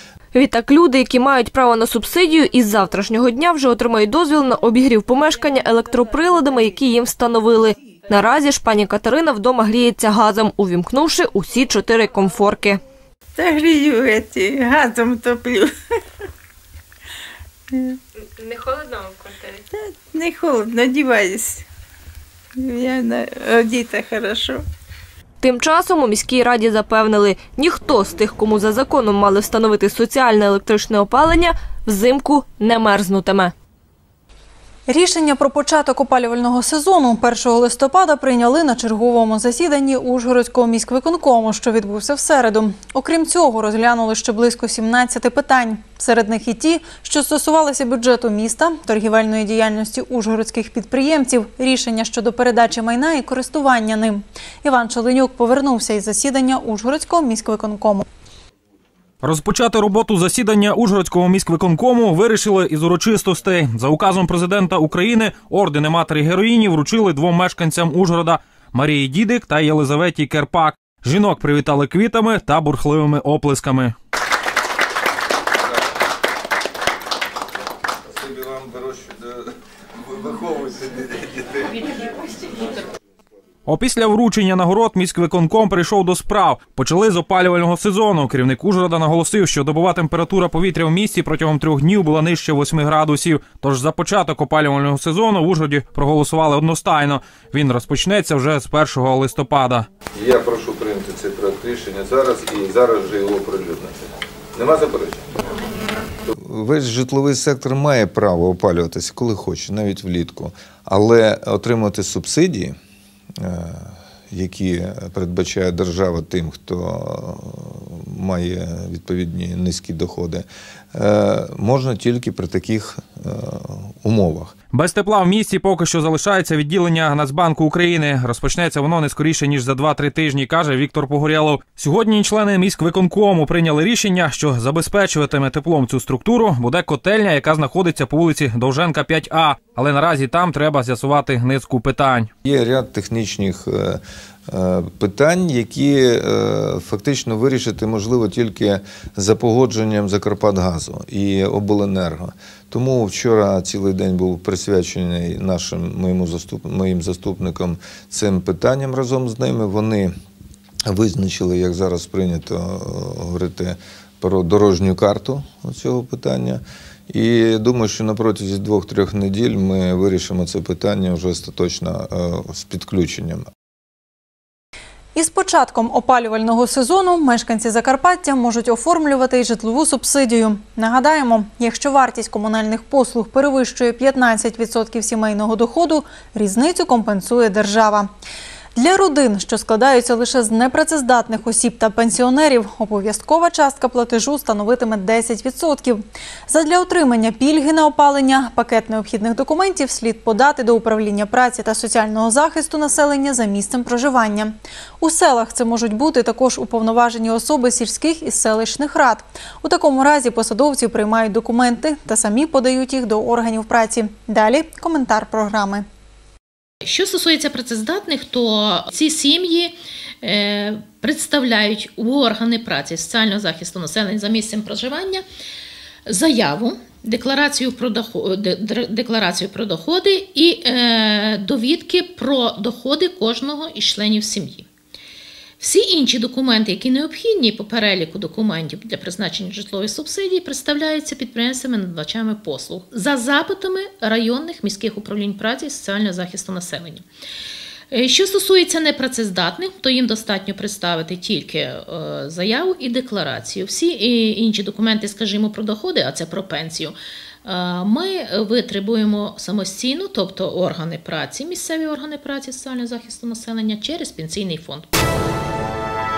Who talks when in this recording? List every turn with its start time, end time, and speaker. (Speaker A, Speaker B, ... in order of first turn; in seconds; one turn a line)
Speaker A: 0.3-12.8
Speaker B: 13.4-15.7
Speaker B: 20.1-21.6
Speaker B: 22.6-24.6
Speaker A: 25.4-33.5
Speaker C: 34.9-58.0
Speaker D: 59.2-73.9
Speaker E: 78.1-81.8
Speaker D: 83.7-99.8
Speaker E: 100.1-105.2
Speaker E: 106.3-112.8
Speaker E: 113.4-124.5
Speaker D: 124.7-142.3
Speaker E: 142.4-160.1
Speaker E: 160.8-173.4
Speaker C: 175.1-188.1
Speaker C: 188.8-215.8
Speaker F: 216.8-225.2
Speaker F: 226.1-234.7
Speaker F: 235.6-247.0
Speaker F: 247.9-264.9